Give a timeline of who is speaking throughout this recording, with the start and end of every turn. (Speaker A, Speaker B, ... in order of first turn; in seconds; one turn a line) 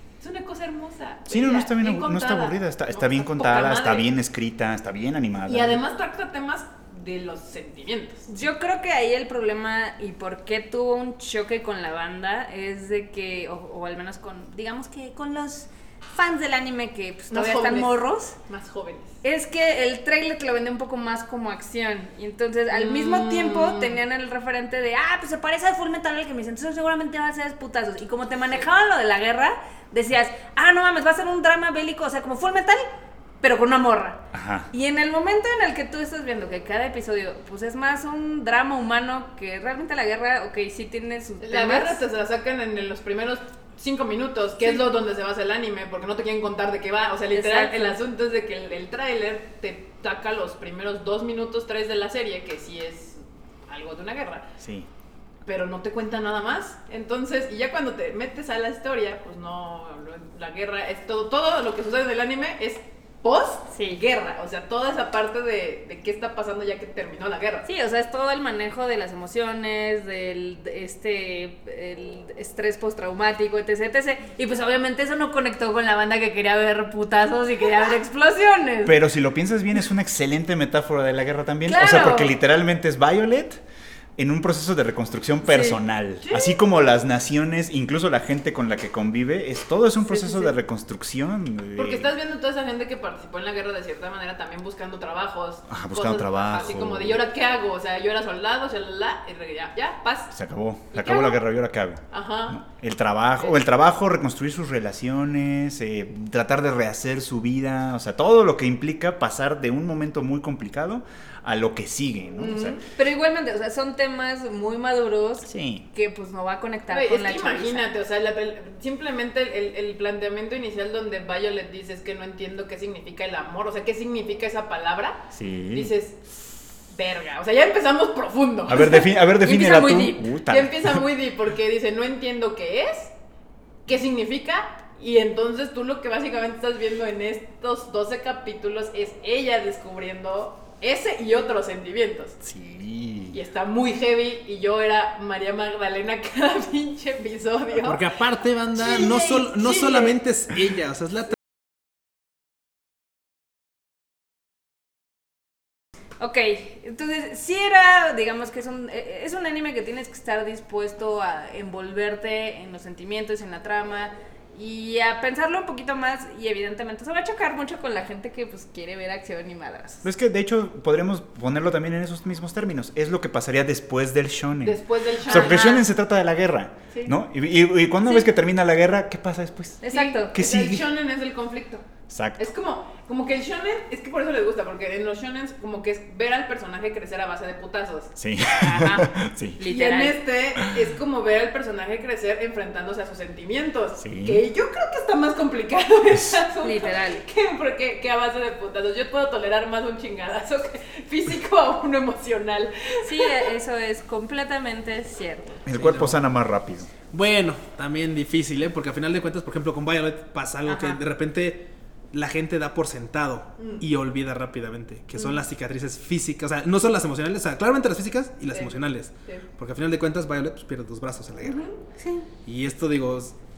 Speaker A: 0.2-4.1
Speaker B: 1.3-5.8
Speaker A: 5.5-8.3
Speaker C: 8.3-18.4
Speaker A: 17.3-17.9
Speaker A: 18.4-19.2
Speaker C: 19.2-32.8
Speaker A: 22.7-24.0
Speaker C: 33.4-34.2
Speaker B: 34.3-34.7
Speaker C: 34.7-42.0
Speaker A: 41.4-54.5
Speaker C: 47.3-48.0
Speaker B: 54.6-54.9
Speaker A: 55.5-67.7
Speaker C: 63.7-64.0
Speaker C: 67.7-79.0
Speaker B: 78.8-83.6
Speaker C: 81.6-82.3
Speaker B: 84.2-92.1
Speaker C: 85.5-85.8
Speaker A: 86.2-86.6
Speaker C: 90.0-90.5
Speaker A: 91.8-100.3
Speaker B: 95.7-97.2
Speaker B: 100.3-112.8
Speaker A: 100.9-101.3
Speaker A: 102.1-102.6
Speaker A: 112.4-112.8
Speaker C: 112.8-117.8
Speaker B: 115.4-115.8
Speaker A: 116.9-129.0
Speaker B: 125.3-125.9
Speaker B: 128.7-131.0
Speaker C: 129.4-130.3
Speaker A: 130.4-133.1
Speaker A: 133.8-142.4
Speaker B: 142.4-143.4
Speaker A: 143.3-148.0
Speaker D: 147.7-151.3
Speaker A: 148.8-150.1
Speaker C: 156.2-170.0
Speaker B: 170.0-179.8
Speaker A: 174.6-175.8
Speaker C: 175.3-175.9
Speaker C: 179.8-180.3
Speaker A: 179.9-181.8
Speaker B: 180.3-180.8
Speaker B: 182.1-182.5
Speaker A: 182.4-188.9
Speaker B: 188.2-189.6
Speaker C: 188.6-189.1
Speaker C: 189.6-190.2
Speaker A: 189.6-203.5
Speaker B: 194.0-194.4
Speaker C: 196.6-197.2
Speaker C: 203.0-205.6
Speaker B: 205.7-206.9
Speaker D: 205.7-206.2
Speaker D: 207.1-221.7
Speaker C: 210.7-211.0
Speaker A: 213.6-213.8
Speaker A: 218.5-219.4
Speaker A: 221.4-221.7
Speaker C: 222.0-222.3
Speaker D: 222.4-223.3